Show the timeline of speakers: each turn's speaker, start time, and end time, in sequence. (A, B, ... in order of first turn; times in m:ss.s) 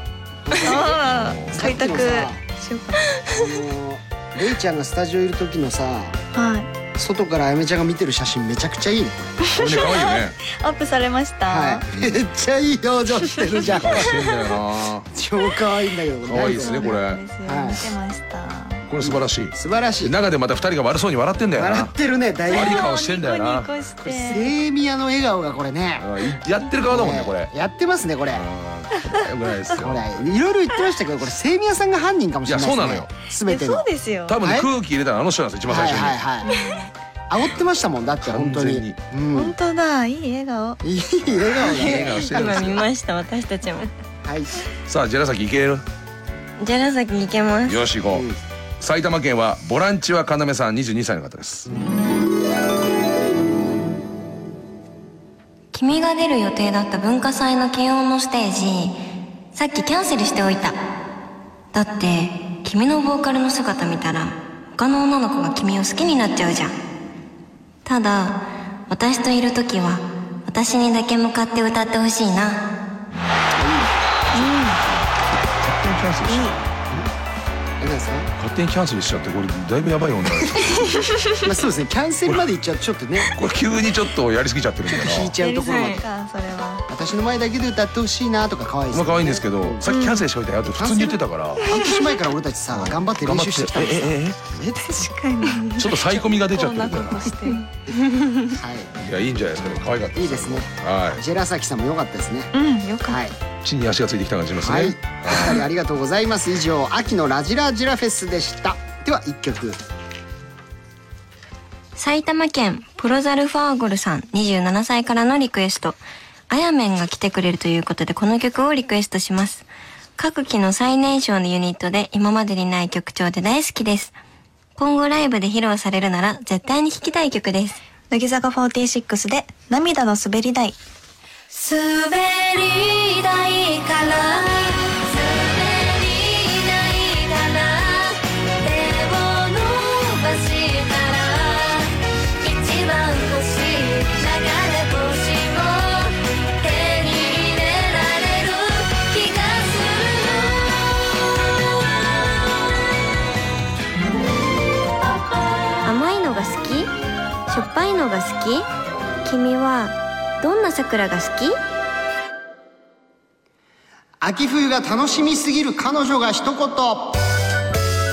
0:00.5-0:00.9 A
0:00.6-0:03.0 B
0:01.0-0:01.8 C
0:01.5-0:02.4 A
0:03.3-0:06.2 A
0:06.3-0:06.7 B
0:06.9-0:09.5 A
0:09.4-0:11.8 B
0:09.5-0:10.4 C
0:11.5-0:14.3 A
0:13.6-0:15.1 C
0:15.1-0:17.9 A
0:16.2-0:17.2 C
0:16.4-0:18.9 B
0:18.9-0:21.9 C
0:19.0-0:20.2 A
0:21.6-0:22.9 A
0:22.5-0:23.7 C
0:22.5-0:24.5 B
0:24.0-0:26.1 A
0:26.0-0:27.5 C
0:26.9-0:28.4 A
0:28.3-0:30.3 C
0:29.7-0:33.9 A
0:32.5-0:33.1 C
0:33.5-0:34.4 B
0:34.3-0:36.2 C
0:34.4-0:34.7 A
0:35.7-0:36.5 A
0:36.4-0:36.9 B
0:37.3-0:39.6 A
0:38.2-0:39.0 C
0:39.3-0:40.8 B
0:40.8-0:42.3 A
0:41.2-0:42.9 C
0:41.7-0:43.9 D
0:44.2-0:44.5 A
0:44.9-0:45.8 C
0:46.6-0:47.9 D
0:47.7-0:48.3 C
0:48.1-0:48.4 A
0:48.8-0:51.7 C
0:55.7-0:59.0 D
0:59.5-1:00.8 D
1:01.7-1:06.8 D
1:07.8-1:12.7 D
1:13.1-1:13.7 C
1:13.5-1:15.2 A
1:14.4-1:14.8 B
1:15.3-1:16.7 C
1:16.3-1:16.6 B
1:17.8-1:18.3 A
1:18.4-1:21.0 C
1:21.4-1:23.3 A
1:23.3-1:25.4 C
1:24.9-1:26.0 A
1:25.4-1:26.8 B
1:25.7-1:26.0 D
1:26.9-1:29.8 A
1:28.9-1:31.7 C
1:29.9-1:30.3 B
1:30.7-1:35.1 A
1:31.6-1:32.1 B
1:32.7-1:34.5 C
1:34.9-1:37.7 B
1:35.7-1:37.4 C
1:38.5-1:38.9 A
1:39.0-1:41.2 C
1:40.2-1:42.5 A
1:42.5-1:43.2 B
1:43.1-1:43.4 A
1:43.6-1:45.7 C
1:44.6-1:49.8 A
1:52.0-2:04.2 D
2:04.8-2:07.8 D
2:08.1-2:10.8 B
2:11.5-2:32.3 E
2:35.8-2:36.9 D
2:37.5-2:38.7 D
2:39.2-2:41.6 D
2:44.2-2:47.2 A